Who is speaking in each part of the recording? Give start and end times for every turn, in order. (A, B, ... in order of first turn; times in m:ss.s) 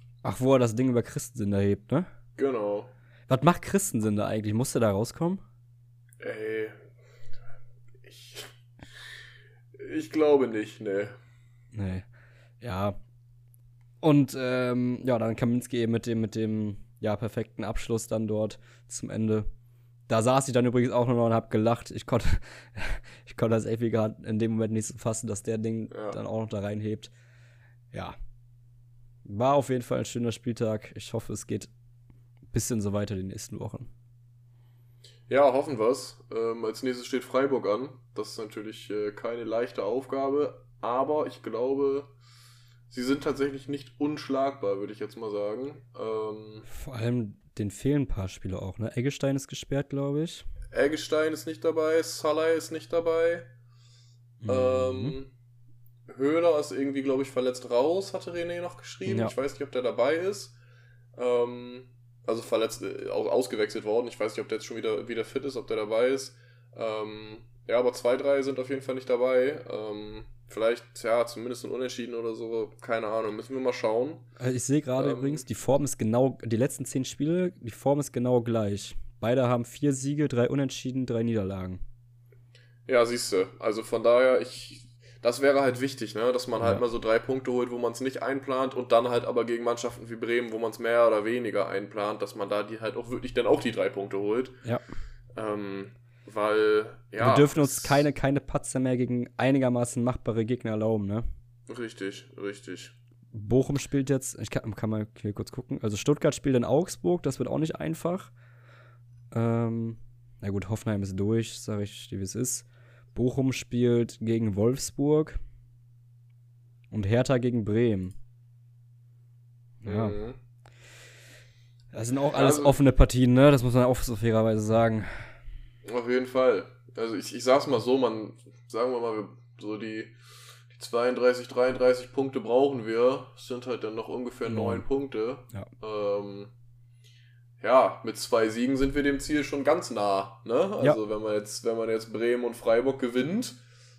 0:00.2-0:02.1 A
0:02.4-0:02.9 B
0:03.3-0:05.4 A
0:06.2-0:06.9 B
0:08.0-0:08.5 B
0:09.8-0:11.1 B
0:11.7-0:12.1 A
0:12.6-0:13.0 A
0:14.0-0:19.5 A
0:20.1-0:27.1 A
0:25.9-0:26.2 B
0:29.2-0:31.7 A
0:32.5-0:33.9 A
0:35.3-0:42.1 B
0:42.9-0:46.7 B
0:46.7-0:50.5 A
0:50.7-0:53.5 B
0:54.4-0:55.2 A
0:54.5-0:55.3 B
0:56.1-1:00.6 B
0:59.1-0:59.4 A
1:01.2-1:14.3 B
1:14.4-1:21.8 A
1:15.0-1:15.5 B
1:22.9-1:34.6 B
1:35.4-1:38.1 B
1:37.2-1:41.2 A
1:41.7-1:43.0 B
1:43.3-1:48.3 A
1:49.3-1:55.4 A
1:56.9-1:58.2 A
1:59.8-2:00.2 A
1:59.8-2:00.4 B
2:01.9-2:05.3 A
2:02.3-2:02.8 B
2:05.9-2:10.1 B
2:10.7-2:16.5 B
2:14.4-2:14.9 A
2:17.6-2:23.6 B